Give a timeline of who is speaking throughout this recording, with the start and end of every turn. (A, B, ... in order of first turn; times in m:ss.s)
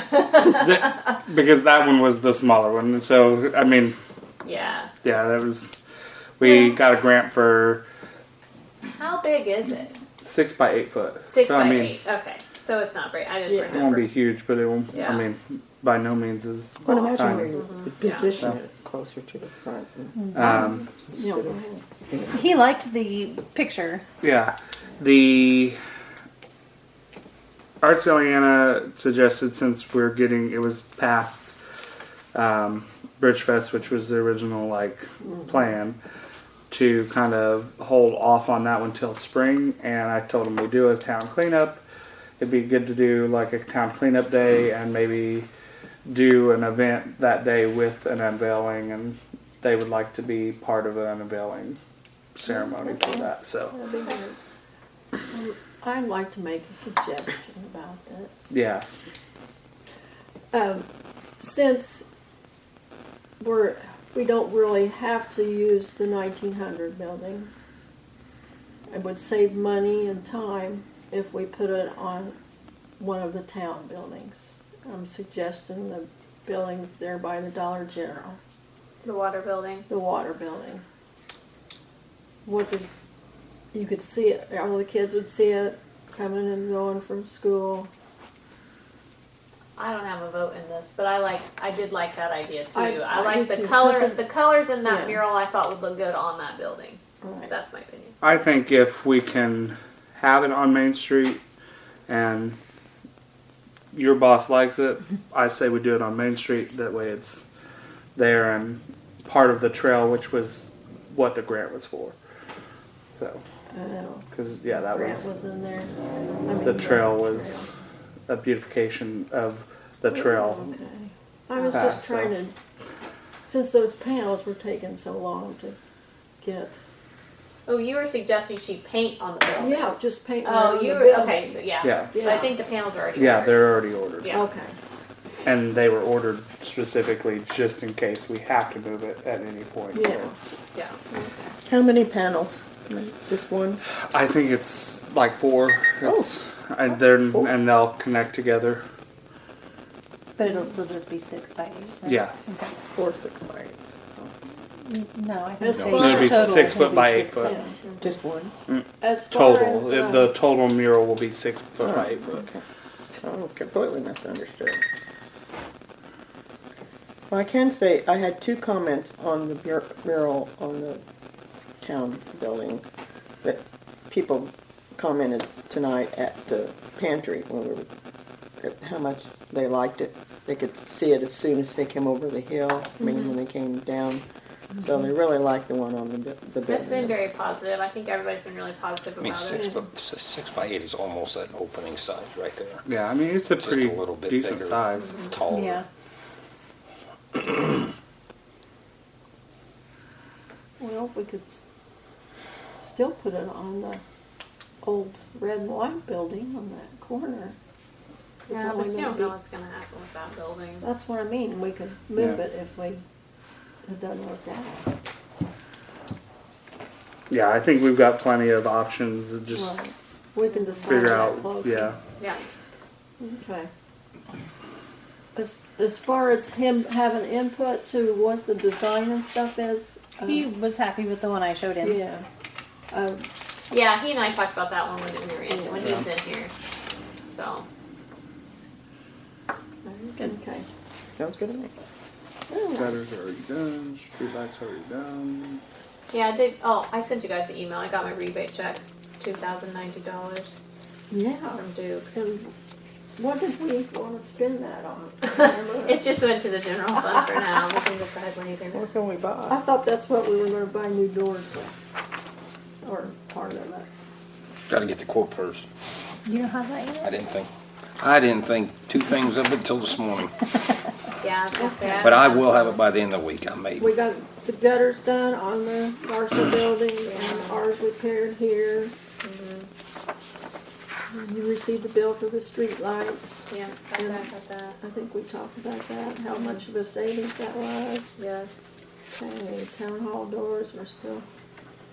0:00.4-0:04.0 A
0:04.4-0:04.9 B
0:05.0-0:05.8 A
0:06.4-0:07.8 A
0:08.9-0:10.0 B
0:10.2-0:12.0 A
0:11.3-0:14.1 B
0:13.5-0:13.9 C
0:13.7-0:17.5 A
0:14.9-0:15.2 B
0:16.8-0:20.5 D
0:17.5-0:18.3 B
0:20.2-0:20.6 E
0:20.3-0:20.9 A
0:20.4-0:21.6 C
0:21.1-0:22.6 D
0:22.3-0:24.0 E
0:24.2-0:25.8 A
0:27.8-0:31.5 A
0:32.3-0:36.0 A
0:36.7-0:41.8 A
0:42.4-0:45.5 A
0:46.0-0:51.8 A
0:52.4-0:53.8 A
0:52.5-0:54.4 C
0:55.3-0:58.5 C
0:58.5-0:59.0 A
1:00.5-1:02.0 C
1:03.4-1:07.5 C
1:08.9-1:12.4 C
1:13.0-1:18.4 C
1:19.0-1:19.9 B
1:19.9-1:20.8 C
1:22.4-1:22.9 C
1:23.7-1:27.9 C
1:29.8-1:38.2 B
1:32.7-1:34.2 C
1:34.8-1:35.2 C
1:37.2-1:37.5 C
1:38.2-1:41.4 A
1:42.1-1:42.6 A
1:43.9-1:47.5 A
1:48.2-1:52.2 A
1:53.2-1:53.4 A
1:53.7-1:55.9 C
1:54.3-1:55.3 A
1:56.4-1:57.7 C
1:56.6-1:57.7 A
1:58.3-2:00.6 A
2:00.1-2:02.6 C
2:01.7-2:02.4 A
2:03.4-2:05.8 C
2:06.4-2:06.7 C
2:07.7-2:14.4 B
2:09.6-2:12.5 C
2:11.8-2:12.2 A
2:13.1-2:14.5 A
2:14.3-2:14.8 C
2:15.4-2:20.3 A
2:19.9-2:20.4 C
2:20.8-2:21.0 B
2:21.1-2:21.5 C
2:21.7-2:23.8 D
2:24.1-2:28.8 A
2:26.0-2:26.3 D
2:30.4-2:32.8 E
2:32.0-2:32.3 A
2:33.0-2:34.3 D
2:34.8-2:37.6 E
2:35.6-2:36.8 C
2:35.9-2:37.5 A
2:37.4-2:37.8 C
2:38.0-2:38.5 D
2:38.7-2:42.4 A
2:39.0-2:40.3 C
2:41.8-2:42.6 D
2:43.2-2:44.8 D
2:47.3-2:51.0 D
2:51.8-2:52.8 D
2:53.4-2:57.9 D
2:58.6-3:04.2 D
3:03.0-3:03.3 B
3:04.8-3:07.2 D
3:06.7-3:09.7 B
3:09.2-3:12.8 F
3:12.9-3:15.2 A
3:13.6-3:15.8 F
3:15.0-3:15.3 B
3:15.5-3:15.8 E
3:20.8-3:21.6 C
3:22.8-3:24.0 C
3:24.8-3:27.6 C
3:28.5-3:29.4 C
3:28.5-3:30.9 B
3:30.8-3:33.0 C
3:33.8-3:34.9 C
3:37.3-3:39.8 A
3:39.5-3:42.0 C
3:40.9-3:42.0 A
3:43.2-3:43.7 C
3:45.4-3:50.5 C
3:50.2-3:52.0 E
3:51.8-3:52.2 C
3:52.9-3:53.3 C
3:53.7-3:56.5 B
3:55.5-3:56.0 C
3:57.3-3:57.7 B
3:59.8-4:00.7 C
4:01.2-4:01.7 D
4:02.5-4:02.9 C
4:02.7-4:05.6 A
4:06.1-4:10.5 B
4:11.1-4:11.6 C
4:11.6-4:12.1 B
4:12.1-4:12.5 C
4:13.2-4:16.1 C
4:15.3-4:18.8 B
4:18.7-4:19.6 D
4:19.5-4:21.7 C
4:22.8-4:23.9 C
4:24.7-4:25.7 F
4:26.2-4:27.2 E
4:27.0-4:30.5 F
4:31.2-4:32.4 B
4:31.6-4:32.4 C
4:32.0-4:33.9 F
4:33.8-4:39.0 C
4:37.0-4:37.6 B
4:39.2-4:39.7 B
4:41.1-4:44.3 C
4:43.5-4:44.8 B
4:44.8-4:48.2 C
4:46.3-4:46.6 B
4:48.2-4:48.8 B
4:49.1-4:51.2 C